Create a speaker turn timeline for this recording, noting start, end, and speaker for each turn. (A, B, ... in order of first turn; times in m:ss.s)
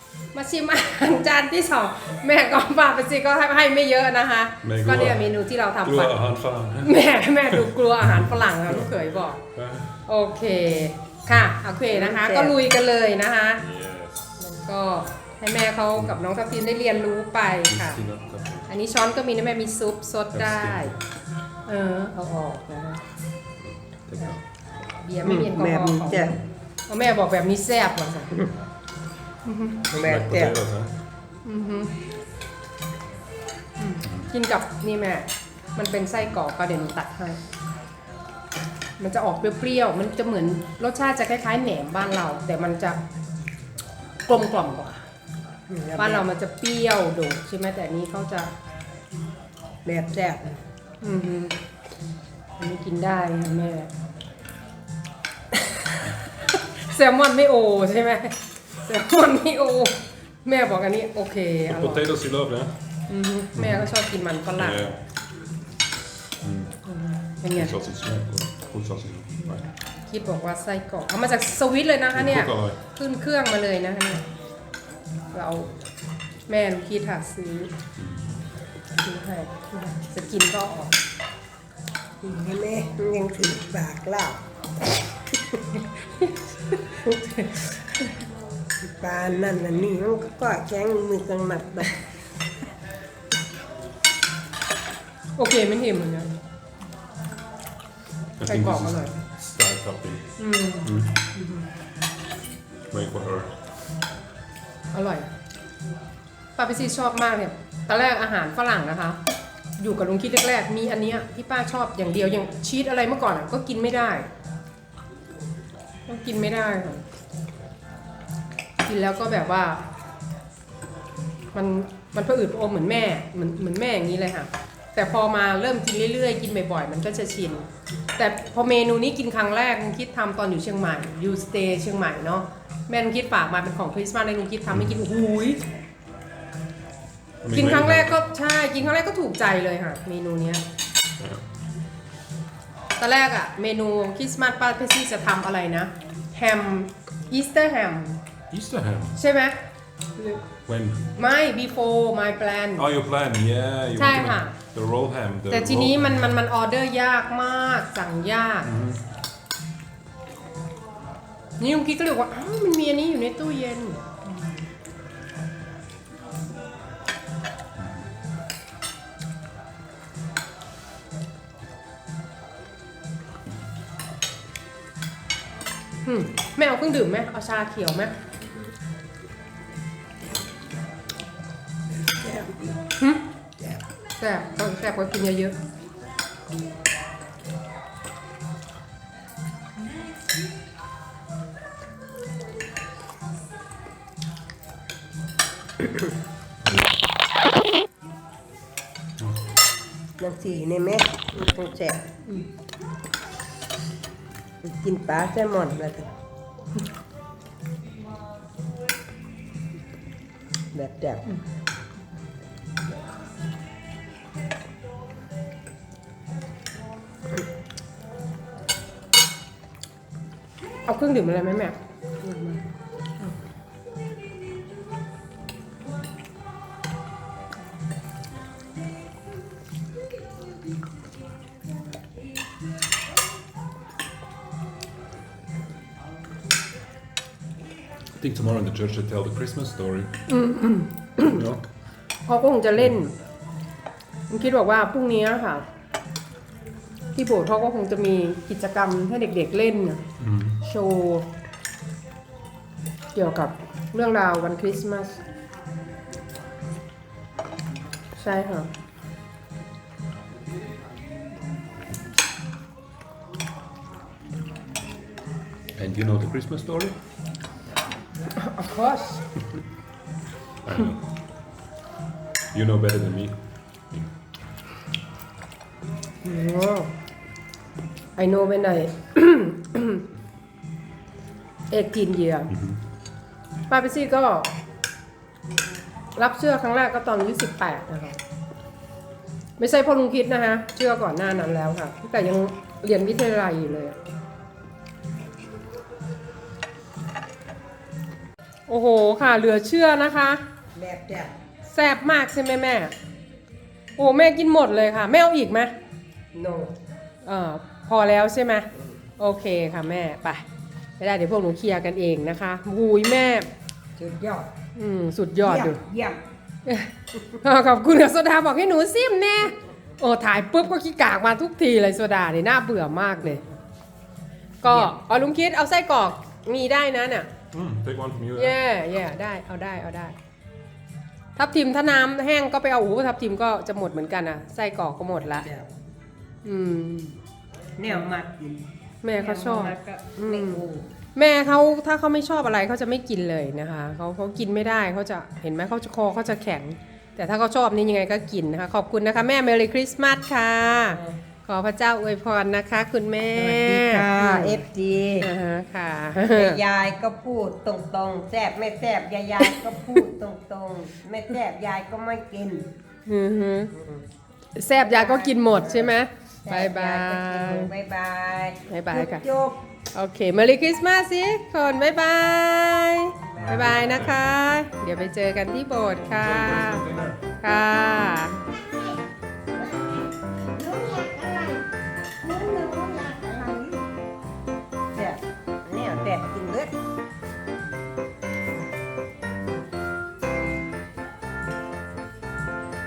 0:00.3-0:06.2 A
0:04.6-0:05.2 B
0:05.8-0:06.9 B
0:06.8-0:09.4 A
0:07.5-0:08.9 B
0:09.5-0:10.0 B
0:10.1-0:13.6 A
0:11.9-0:12.6 C
0:13.6-0:14.4 B
0:14.4-0:18.0 A
0:17.7-0:18.7 B
0:18.7-0:20.9 A
0:20.3-0:21.0 B
0:21.7-0:23.0 A
0:23.6-0:24.4 B
0:25.0-0:28.4 A
0:25.2-0:26.4 C
0:29.4-0:29.8 A
0:29.9-0:31.0 B
0:29.9-0:30.6 C
0:31.4-0:32.0 A
0:33.8-0:37.4 A
0:34.0-0:34.3 B
0:39.0-0:43.0 A
0:44.3-0:45.0 A
0:45.7-0:46.2 C
0:46.0-0:48.5 A
0:49.8-0:50.6 C
0:51.0-0:51.6 A
0:52.6-0:53.9 A
0:55.8-1:02.1 A
1:01.7-1:02.7 B
1:03.1-1:04.9 A
1:03.6-1:03.9 B
1:04.6-1:05.0 B
1:06.4-1:06.8 B
1:06.9-1:07.8 A
1:07.5-1:09.7 B
1:10.1-1:14.2 A
1:12.1-1:12.8 B
1:15.3-1:15.7 A
1:16.5-1:17.7 A
1:18.0-1:18.4 B
1:19.0-1:21.0 A
1:22.2-1:24.4 C
1:26.2-1:28.2 A
1:28.8-1:32.1 C
1:35.4-1:36.3 A
1:38.4-1:40.2 B
1:38.5-1:39.1 A
1:40.4-1:41.6 A
1:40.8-1:41.2 B
1:42.9-1:43.5 B
1:44.9-1:45.3 A
1:46.6-1:49.2 A
1:49.8-1:54.3 A
1:56.1-1:57.0 A
1:58.8-1:59.8 A
2:01.5-2:15.6 A
2:17.4-2:18.2 B
2:17.5-2:20.6 A
2:21.2-2:21.4 B
2:23.0-2:28.2 A
2:28.5-2:29.2 B
2:29.2-2:29.6 A
2:30.7-2:31.1 B
2:31.2-2:32.9 A
2:32.8-2:36.3 B
2:34.0-2:34.6 A
2:35.5-2:38.7 A
2:38.6-2:39.0 B
2:41.6-2:44.2 A
2:56.0-2:58.2 A
3:02.2-3:02.6 C
3:03.0-3:03.2 A
3:04.2-3:05.6 A
3:20.2-3:22.0 C
3:24.6-3:26.1 C
3:30.7-3:31.3 C
3:40.9-3:42.7 A
3:58.2-4:00.1 B
4:00.3-4:01.4 A
4:01.2-4:01.6 B
4:02.3-4:03.1 A
4:04.3-4:05.7 A
4:07.2-4:10.0 A
4:10.2-4:10.6 B
4:10.6-4:11.3 A
4:13.1-4:15.2 A
4:18.2-4:18.7 A
4:25.8-4:27.0 B
4:28.4-4:29.2 A
4:30.6-4:31.1 B
4:32.5-4:34.1 B
4:36.2-4:36.9 A
4:38.2-4:40.0 A
4:41.7-4:42.5 A
4:42.5-4:42.8 B
4:43.7-4:44.5 A
4:46.2-4:48.2 A
4:49.6-4:54.0 A
4:58.7-5:00.4 A
5:00.8-5:01.3 C
5:01.7-5:02.9 A
5:04.0-5:05.7 A
5:06.3-5:06.7 C
5:07.2-5:08.7 A
5:09.2-5:10.4 A
5:11.0-5:13.5 A
5:14.0-5:14.5 C
5:14.8-5:15.8 A
5:15.4-5:16.2 C
5:17.4-5:23.4 A
5:24.6-5:27.3 A
5:27.5-5:28.6 B
5:28.4-5:30.2 A
5:31.4-5:35.5 A
5:35.4-5:35.7 C
5:36.4-5:37.2 A
5:37.8-5:40.9 C
5:39.0-5:39.8 A
5:40.3-5:40.6 A
5:41.2-5:54.6 A
5:50.9-5:51.2 C
5:53.4-5:55.3 C
5:55.2-5:56.6 A
5:56.3-6:02.7 C
6:03.1-6:03.7 A
6:04.6-6:07.7 A
6:04.7-6:09.6 C
6:08.7-6:09.2 A
6:09.9-6:16.8 A
6:13.3-6:13.8 C
6:13.4-6:14.2 B
6:16.2-6:17.2 B
6:17.4-6:18.4 A
6:19.6-6:20.0 C
6:20.6-6:21.6 C
6:22.2-6:23.9 C
6:24.9-6:26.7 C